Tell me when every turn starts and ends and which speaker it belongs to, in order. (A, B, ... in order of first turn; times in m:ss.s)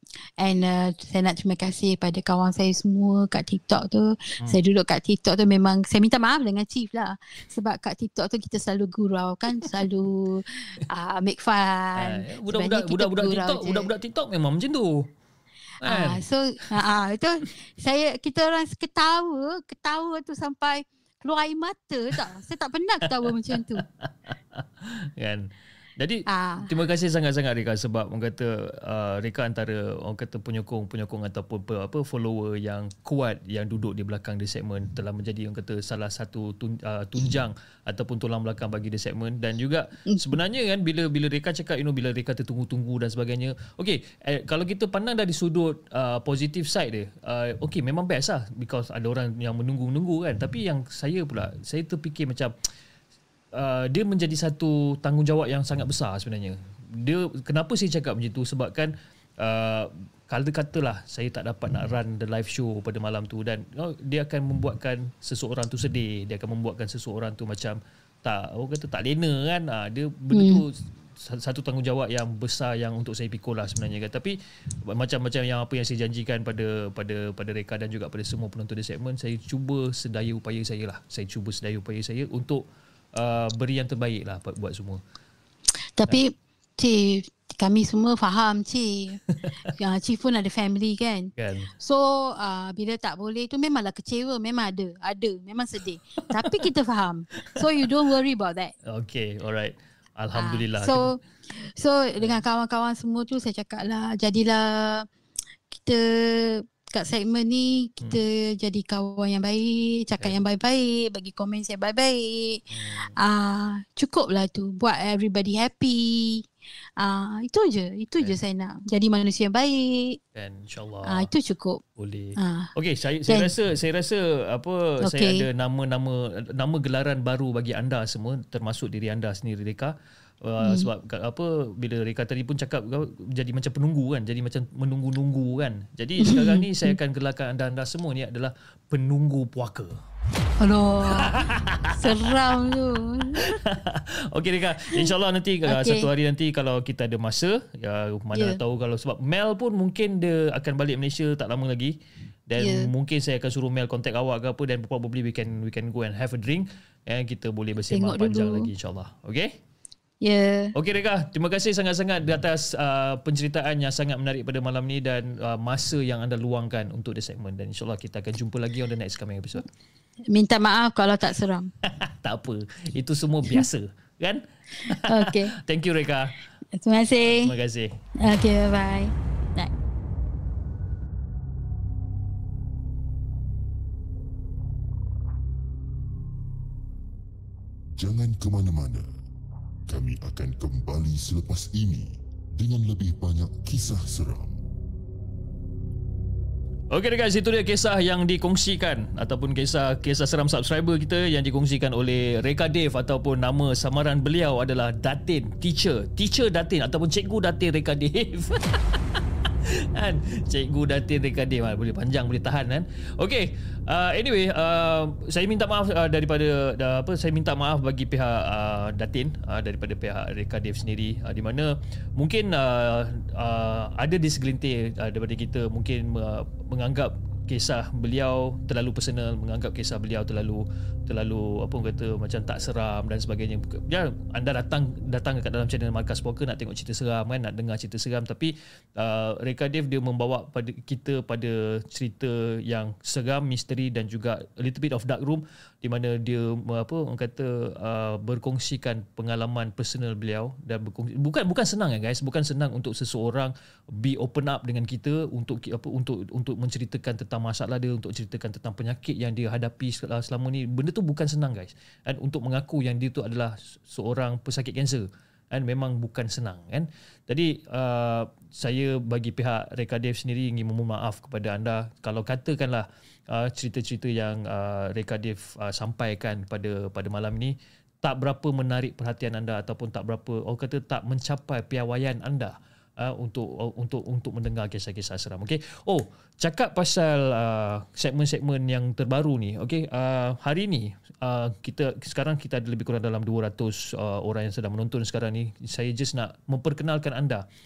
0:00.4-0:13.9 A
0:12.0-0:15.1 B
0:15.8-0:16.2 B
0:15.9-0:23.8 A
0:23.8-0:52.5 B
0:26.3-0:26.7 A
0:53.6-1:14.4 B
1:10.3-1:10.6 A
1:14.9-1:22.6 B
1:23.2-1:25.0 B
1:26.0-1:38.7 A
1:29.3-1:29.6 B
1:31.4-1:31.7 B
1:38.9-1:41.2 B
1:40.4-1:45.1 A
1:45.7-1:52.6 A
1:52.7-1:53.2 B
1:53.2-1:56.5 A
1:57.0-2:00.2 A
2:00.4-2:01.3 B
2:01.1-2:01.8 A
2:02.0-2:20.0 B
2:02.4-2:02.7 A
2:05.0-2:05.5 A
2:10.6-2:10.9 A
2:16.2-2:16.9 A
2:20.6-2:21.4 A
2:21.1-2:22.4 B
2:22.0-2:23.5 A
2:23.4-2:32.0 B
2:25.6-2:26.1 A
2:28.3-2:28.6 A
2:32.5-2:39.6 B
2:32.6-2:32.9 A
2:37.9-2:38.7 A
2:40.2-2:40.7 A
2:40.8-2:49.7 B
2:50.3-2:51.7 A
2:51.8-2:56.4 B
2:54.9-2:55.6 A
2:56.7-2:57.6 A
2:57.2-2:58.0 B
2:58.2-2:59.7 A
3:08.0-3:09.1 C
3:09.9-3:14.6 C
3:16.9-3:29.2 B
3:29.9-4:57.4 B